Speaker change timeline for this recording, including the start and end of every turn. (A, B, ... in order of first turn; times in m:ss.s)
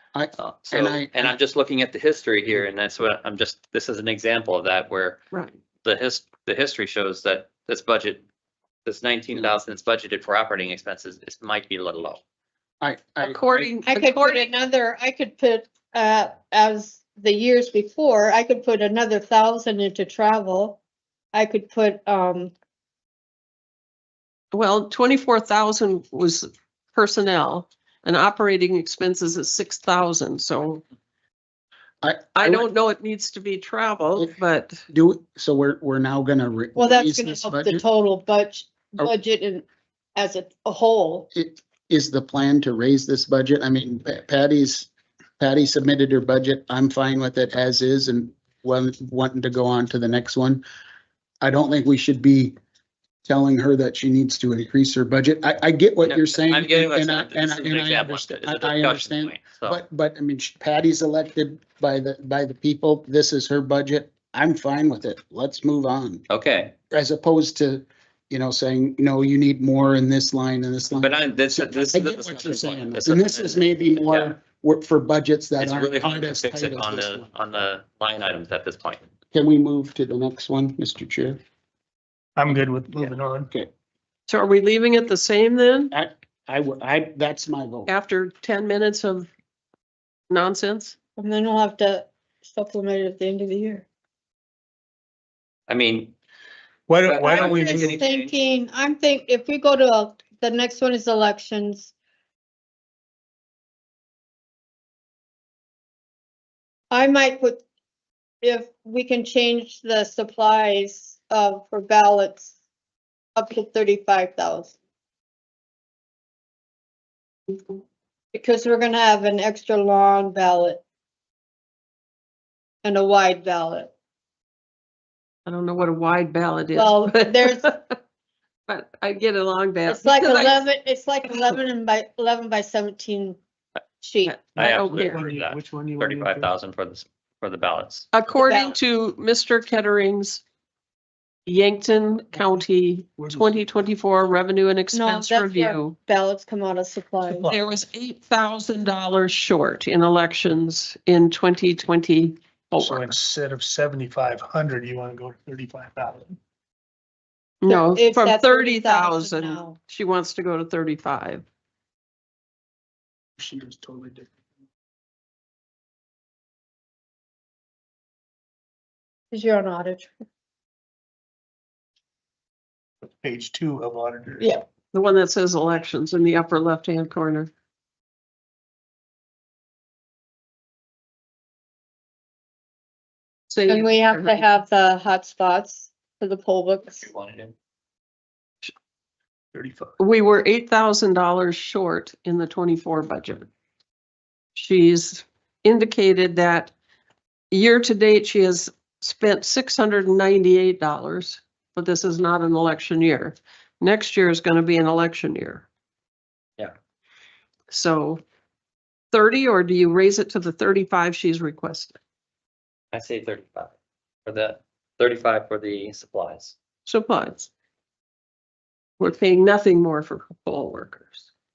0:00.1-0:01.4 A
0:00.4-0:05.2 B
0:05.8-0:08.2 B
0:08.8-0:12.2 B
0:12.8-0:13.7 A
0:13.2-0:14.5 C
0:13.8-0:20.8 D
0:21.3-0:22.5 D
0:24.5-0:30.8 C
0:32.0-0:32.6 A
0:32.4-0:34.8 C
0:34.9-0:37.8 A
0:36.8-0:39.6 D
0:40.2-0:41.3 D
0:41.3-0:50.6 A
0:51.4-0:52.5 A
0:53.2-1:06.2 A
0:56.0-0:59.8 B
1:06.3-1:06.7 B
1:06.9-1:17.3 A
1:11.0-1:14.3 B
1:15.6-1:19.0 B
1:19.3-1:21.4 A
1:22.4-1:23.5 E
1:24.3-1:25.9 C
1:25.9-1:27.9 A
1:27.9-1:29.3 C
1:30.3-1:30.9 C
1:31.2-1:33.8 D
1:35.7-1:36.1 B
1:36.9-1:38.0 E
1:37.0-1:38.3 B
1:37.3-1:41.9 D
1:46.9-1:47.6 D
1:48.4-1:52.5 D
1:53.4-1:54.7 D
1:58.3-2:00.8 D
2:02.8-2:03.9 D
2:05.4-2:07.9 C
2:06.7-2:07.7 D
2:08.7-2:10.6 C
2:09.8-2:13.4 D
2:14.0-2:14.4 D
2:14.2-2:15.2 C
2:14.5-2:16.5 E
2:14.6-2:18.1 B
2:18.1-2:20.4 C
2:18.4-2:18.8 D
2:21.4-2:26.0 C
2:23.2-2:23.6 E
2:24.9-2:27.5 D
2:27.4-2:33.1 C
2:32.8-2:36.4 E
2:37.6-2:41.4 C
2:37.7-2:39.8 D
2:43.4-2:44.3 E
2:49.3-2:50.1 D
2:53.2-2:54.5 E
2:54.9-2:57.5 C
3:03.5-3:04.4 C
3:03.7-3:07.0 D
3:07.0-3:07.5 B
3:09.5-3:09.9 E
3:10.0-3:13.5 C
3:14.5-3:16.7 C
3:17.5-3:25.7 C
3:27.7-3:28.2 C
3:29.1-3:32.0 C
3:32.9-3:33.7 B
3:34.2-3:36.5 B
3:36.8-3:37.5 C
3:39.0-3:41.3 C